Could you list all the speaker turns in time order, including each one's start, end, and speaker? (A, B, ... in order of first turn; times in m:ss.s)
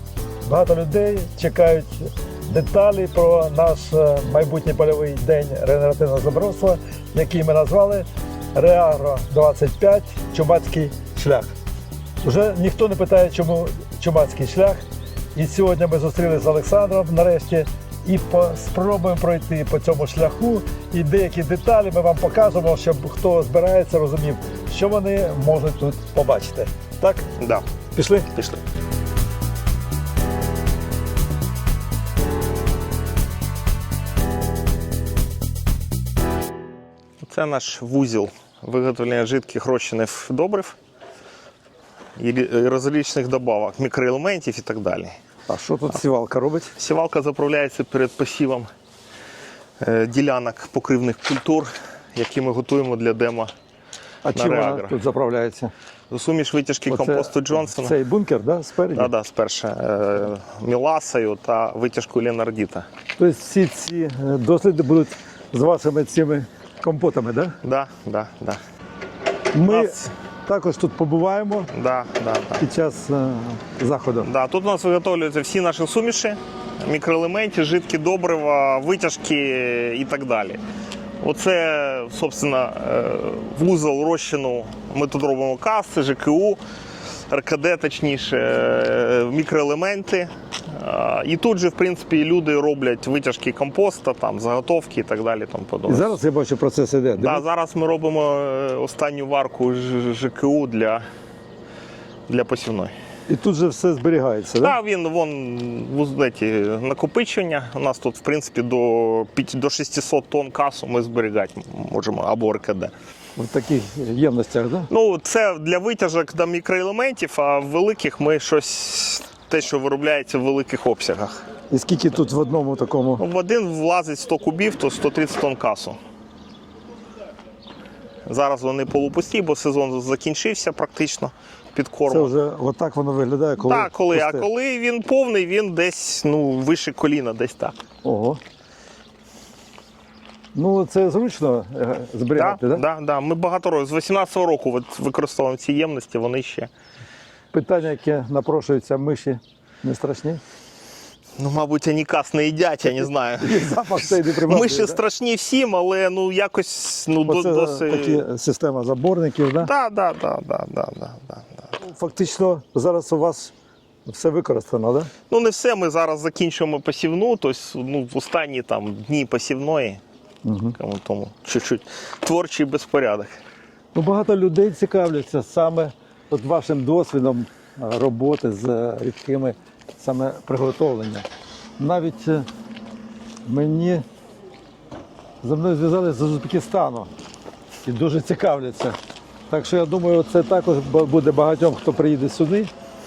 0:00.5-0:11.5 A
0:12.2-0:14.8 A
0:15.4-0:27.3 A
0:27.4-0:27.6 B
0:28.0-0:28.3 A
0:28.3-0:28.6 B
0:37.2-0:40.8 B
0:42.2-0:45.2 B
0:45.5-0:46.7 A
0:46.8-0:48.7 B
0:49.8-0:53.5 B
0:54.2-0:55.7 A
0:54.3-0:55.0 B
0:56.1-0:58.0 B
0:56.9-0:59.1 A
0:58.9-1:02.9 B
1:03.2-1:07.6 A
1:07.6-1:08.6 B
1:09.5-1:11.7 A
1:09.7-1:10.1 B
1:11.7-1:12.6 B
1:12.6-1:14.3 A
1:14.2-1:20.6 B
1:21.2-1:26.6 B
1:27.3-1:36.1 B
1:35.9-1:37.4 A
1:37.2-1:41.1 B
1:42.3-1:42.9 B
1:43.3-1:44.8 A
1:44.6-1:52.9 B
1:53.4-1:54.9 A
1:54.9-2:01.4 B
2:01.7-2:03.2 A
2:03.2-2:06.0 B
2:08.3-2:12.3 B
2:12.1-2:14.4 A
2:13.6-2:17.8 B
2:18.0-2:18.4 A
2:20.5-2:22.8 A
2:22.4-2:26.7 B
2:27.5-2:30.4 A
2:31.4-2:38.2 B
2:33.4-2:35.0 A
2:37.3-2:39.7 A
2:39.6-2:41.7 B
2:41.8-2:43.5 A
2:44.1-2:45.1 A
2:45.3-2:50.0 B
2:50.4-2:50.8 A
2:50.8-2:53.3 B
2:54.0-3:01.3 A
3:01.8-3:02.5 A
3:03.5-3:04.1 A
3:05.4-3:07.1 A
3:07.8-3:09.0 A
3:09.5-3:12.7 A